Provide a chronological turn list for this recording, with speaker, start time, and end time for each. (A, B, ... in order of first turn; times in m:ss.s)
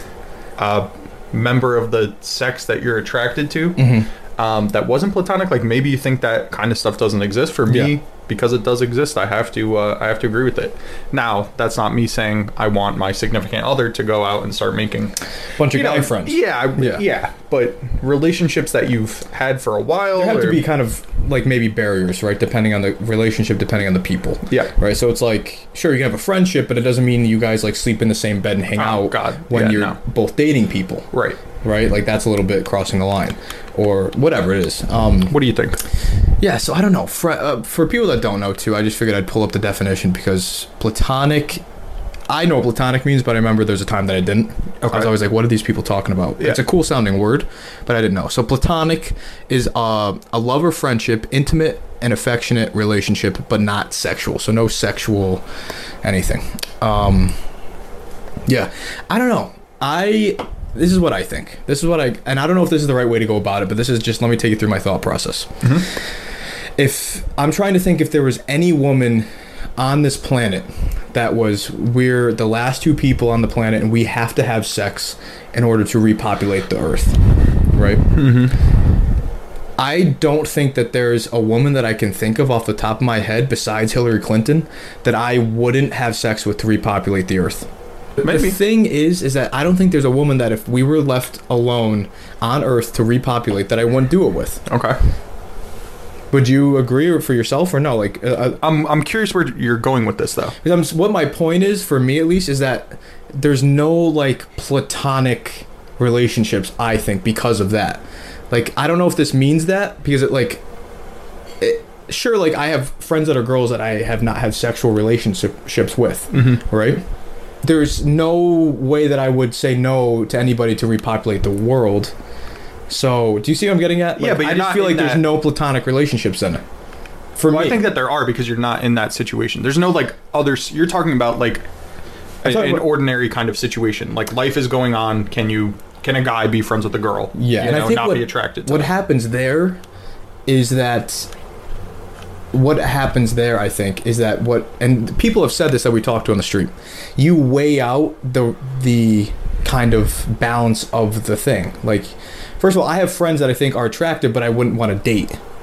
0:00.6-0:15.2 A
0:03.8-0:04.1 B
0:07.7-0:07.9 B
0:15.6-0:17.0 B
0:15.7-0:20.7 A
0:20.2-0:31.1 B
0:24.5-0:24.7 A
0:28.8-0:30.0 A
0:31.1-0:31.4 A
0:31.6-0:35.4 B
0:35.3-0:35.8 A
0:36.4-0:41.6 B
0:42.3-0:55.4 B
0:44.8-0:45.1 A
0:46.4-0:46.6 A
0:56.0-0:57.4 B
0:58.5-1:05.6 B
1:06.8-1:17.2 B
1:17.7-1:18.2 B
1:18.2-1:18.6 A
1:19.8-1:27.7 B
1:28.2-1:28.6 A
1:28.2-1:34.6 B
1:34.7-1:35.0 A
1:36.3-1:38.6 B
1:38.6-1:40.6 A
1:40.6-1:50.6 B
1:51.6-1:57.0 B
1:56.3-1:56.6 A
1:57.6-2:02.1 B
2:02.9-2:06.6 B
2:04.2-2:05.4 A
2:07.4-2:07.8 B
2:07.5-2:11.7 A
2:12.4-2:18.9 A
2:12.4-2:12.9 B
2:17.4-2:19.8 B
2:20.5-2:21.3 B
2:22.5-2:35.4 B